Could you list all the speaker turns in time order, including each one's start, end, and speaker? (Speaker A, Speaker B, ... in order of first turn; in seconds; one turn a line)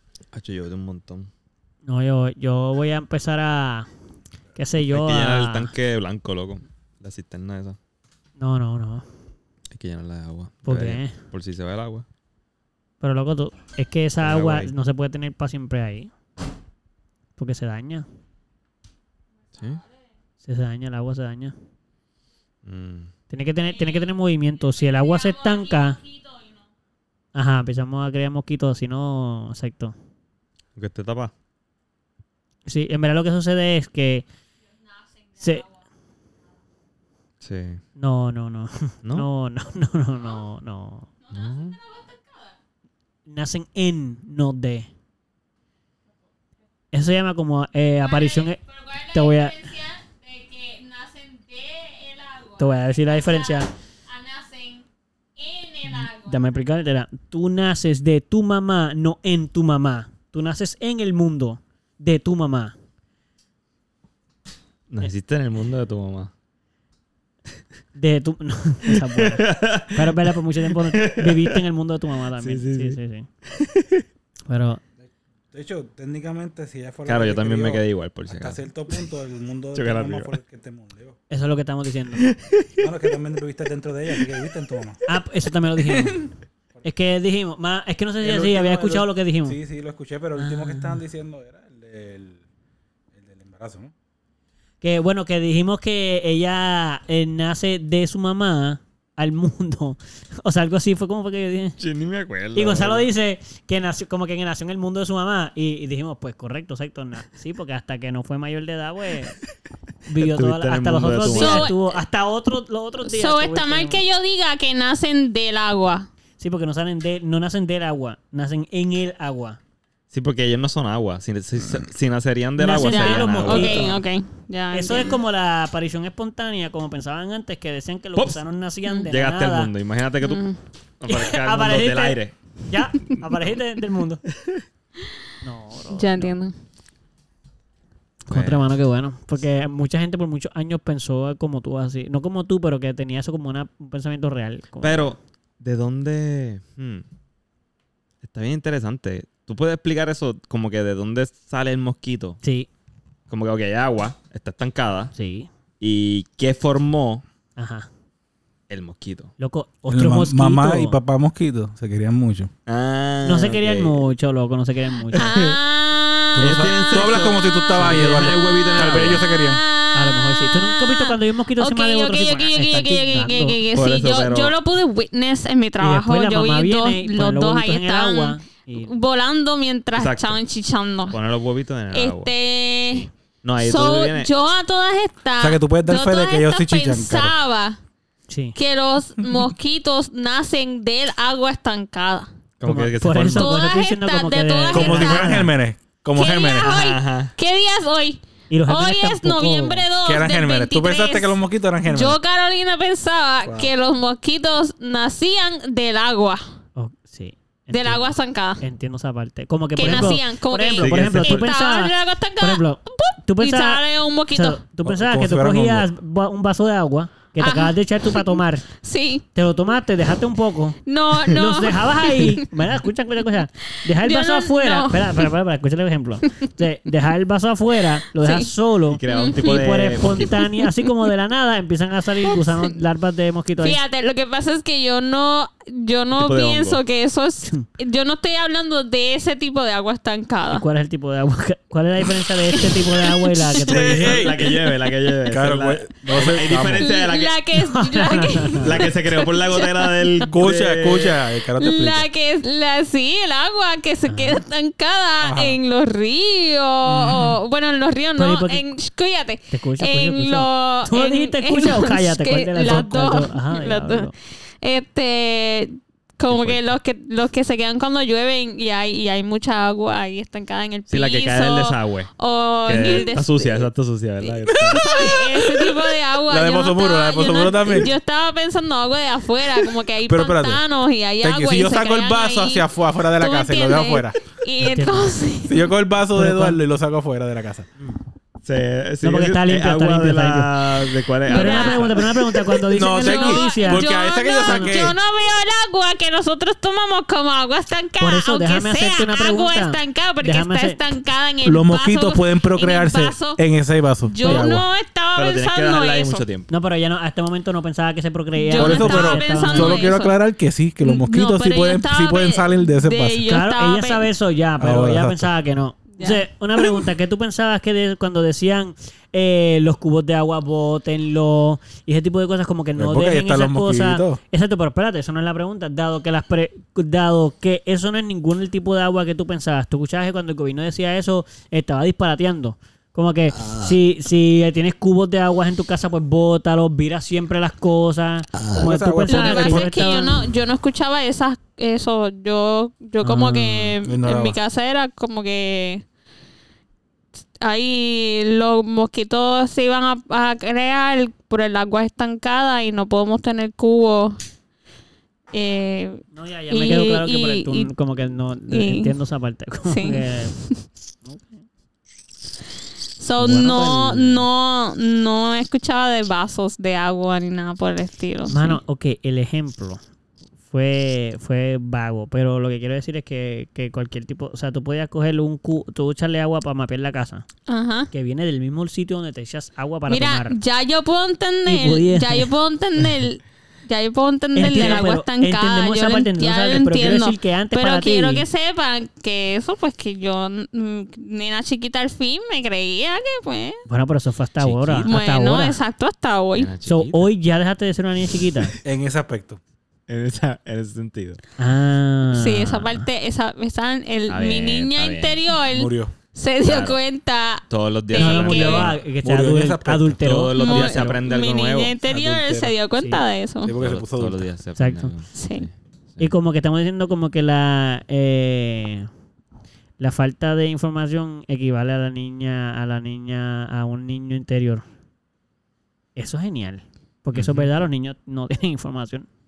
Speaker A: 0.3-1.3
Speaker B: 1.9-3.9
Speaker B: 4.6-5.7
Speaker A: 4.9-7.8
Speaker B: 8.4-9.1
Speaker A: 9.7-12.1
Speaker B: 10.7-11.2
Speaker B: 13.0-16.1
Speaker A: 14.2-14.7
Speaker B: 17.4-18.1
Speaker A: 19.6-19.8
Speaker B: 20.4-21.6
Speaker A: 22.6-23.1
Speaker B: 23.3-26.0
Speaker C: 24.8-26.5
Speaker B: 27.3-29.9
Speaker A: 30.8-31.3
Speaker B: 32.7-34.2
Speaker B: 35.4-35.7
Speaker A: 37.4-37.8
Speaker B: 38.0-41.1
Speaker A: 41.3-41.8
Speaker B: 43.3-44.9
Speaker B: 46.9-48.6
Speaker C: 48.0-54.9
Speaker B: 49.1-49.6
Speaker B: 52.6-53.7
Speaker C: 55.4-56.4
Speaker B: 55.9-62.8
Speaker A: 64.9-66.3
Speaker B: 68.0-73.3
Speaker A: 69.2-70.3
Speaker A: 70.8-71.6
Speaker A: 72.4-73.0
Speaker A: 73.5-74.0
Speaker B: 74.5-74.8
Speaker D: 75.0-81.2
Speaker A: 77.1-78.6
Speaker A: 79.8-80.4
Speaker B: 81.3-82.3
Speaker A: 82.2-82.7
Speaker D: 82.8-85.0
Speaker B: 85.1-86.3
Speaker B: 86.8-89.6
Speaker D: 88.2-92.4
Speaker B: 90.4-91.0
Speaker D: 93.1-93.9
Speaker B: 94.8-101.8
Speaker A: 101.8-103.1
Speaker B: 102.5-109.4
Speaker B: 110.1-114.0
Speaker A: 110.2-111.7
Speaker C: 111.2-111.9
Speaker C: 113.0-116.1
Speaker B: 116.4-119.6
Speaker A: 120.1-124.0
Speaker B: 122.6-124.0
Speaker C: 122.7-125.2
Speaker B: 124.7-129.7
Speaker A: 128.2-128.4
Speaker A: 129.1-130.4
Speaker C: 130.2-130.6
Speaker A: 131.0-132.4
Speaker B: 131.1-134.2
Speaker A: 133.0-133.5
Speaker A: 134.4-134.7
Speaker B: 135.4-136.4
Speaker C: 135.9-136.5
Speaker B: 138.3-145.1
Speaker A: 138.3-138.7
Speaker A: 144.8-147.1
Speaker A: 148.2-152.4
Speaker B: 152.4-152.7
Speaker A: 153.3-155.1
Speaker B: 155.2-155.5
Speaker A: 155.8-157.2
Speaker B: 157.6-157.9
Speaker A: 158.7-159.3
Speaker B: 159.4-161.0
Speaker D: 159.9-162.5
Speaker A: 162.7-164.1
Speaker B: 163.2-165.2
Speaker A: 165.1-165.6
Speaker C: 165.2-167.8
Speaker D: 166.3-169.6
Speaker A: 166.4-169.2
Speaker B: 167.8-168.2
Speaker C: 169.0-181.2
Speaker B: 169.9-173.6
Speaker A: 173.7-174.6
Speaker B: 175.8-178.9
Speaker A: 179.9-180.4
Speaker A: 181.1-182.3
Speaker C: 181.9-183.1
Speaker A: 182.9-184.3
Speaker C: 183.6-187.8
Speaker D: 185.4-187.3
Speaker B: 188.3-188.6
Speaker C: 188.6-192.3
Speaker A: 192.6-193.6
Speaker B: 192.6-195.5
Speaker C: 193.3-195.5
Speaker D: 194.7-196.7
Speaker C: 196.2-206.5
Speaker A: 196.7-197.3
Speaker B: 198.5-199.8
Speaker D: 200.0-202.2
Speaker D: 203.4-203.7
Speaker B: 206.8-213.8
Speaker C: 207.7-208.6
Speaker C: 209.8-214.6
Speaker A: 209.9-210.1
Speaker A: 210.8-211.5
Speaker B: 214.3-218.7
Speaker D: 214.8-215.9
Speaker C: 217.4-219.2
Speaker B: 219.3-233.8
Speaker C: 220.9-222.5
Speaker C: 224.0-225.3
Speaker C: 228.2-228.5
Speaker A: 228.9-230.6
Speaker C: 229.1-229.7
Speaker C: 233.6-240.6
Speaker A: 236.1-236.8
Speaker B: 240.5-244.2
Speaker C: 242.5-243.7
Speaker D: 243.7-244.6
Speaker A: 243.7-247.4
Speaker D: 245.3-246.9
Speaker C: 246.8-250.3
Speaker B: 247.6-248.7
Speaker A: 248.6-251.2
Speaker D: 250.3-252.1
Speaker C: 251.6-273.7
Speaker B: 254.1-254.4
Speaker D: 255.2-255.6
Speaker B: 256.9-257.4
Speaker B: 258.2-258.7
Speaker B: 259.5-264.1
Speaker A: 266.3-266.6
Speaker A: 270.9-272.1
Speaker A: 272.6-274.8
Speaker D: 274.5-277.9
Speaker C: 274.5-285.7
Speaker D: 280.1-280.6
Speaker D: 281.2-284.2
Speaker B: 284.6-285.2
Speaker D: 285.5-287.7
Speaker B: 286.1-286.6
Speaker A: 288.4-292.1
Speaker B: 289.0-290.7
Speaker B: 291.3-293.9
Speaker C: 291.3-292.1
Speaker D: 292.7-295.0
Speaker C: 292.8-303.4
Speaker B: 294.4-294.9
Speaker B: 298.0-300.8
Speaker D: 301.4-304.7
Speaker C: 304.0-306.2
Speaker B: 304.2-304.5
Speaker A: 305.2-306.5
Speaker B: 306.5-309.8
Speaker C: 308.4-310.2
Speaker D: 308.6-313.3
Speaker C: 310.8-314.1
Speaker B: 313.3-340.2
Speaker D: 314.6-315.3
Speaker C: 316.0-316.2
Speaker D: 322.8-324.2
Speaker D: 338.5-340.0
Speaker C: 339.1-345.8
Speaker B: 343.0-343.8
Speaker D: 343.8-344.4
Speaker C: 347.4-354.2
Speaker C: 355.3-357.7
Speaker B: 356.1-360.4
Speaker C: 358.5-358.9
Speaker C: 359.7-360.6
Speaker B: 361.1-361.4
Speaker C: 363.0-368.6
Speaker B: 363.2-364.3
Speaker B: 368.3-369.8
Speaker B: 370.5-377.3
Speaker C: 377.5-377.9
Speaker B: 377.9-380.4
Speaker C: 379.9-393.6
Speaker B: 381.5-382.3
Speaker B: 384.4-388.3
Speaker B: 393.7-395.6
Speaker A: 394.4-395.0
Speaker C: 394.9-396.5
Speaker A: 396.4-397.1
Speaker B: 396.6-398.6
Speaker D: 398.6-399.4
Speaker A: 399.9-401.2
Speaker B: 401.4-402.9
Speaker C: 402.1-408.7
Speaker A: 404.1-405.2
Speaker D: 405.5-405.9
Speaker A: 406.4-406.8
Speaker A: 407.5-408.8
Speaker B: 407.9-410.8
Speaker D: 409.0-410.0
Speaker A: 410.0-411.8
Speaker C: 410.4-413.6
Speaker D: 411.8-412.6
Speaker B: 412.8-413.0
Speaker D: 413.4-414.3
Speaker A: 413.6-416.1
Speaker B: 414.6-414.9
Speaker C: 415.1-415.5
Speaker B: 416.0-418.9
Speaker B: 419.8-424.6
Speaker B: 426.0-429.1
Speaker A: 427.1-427.5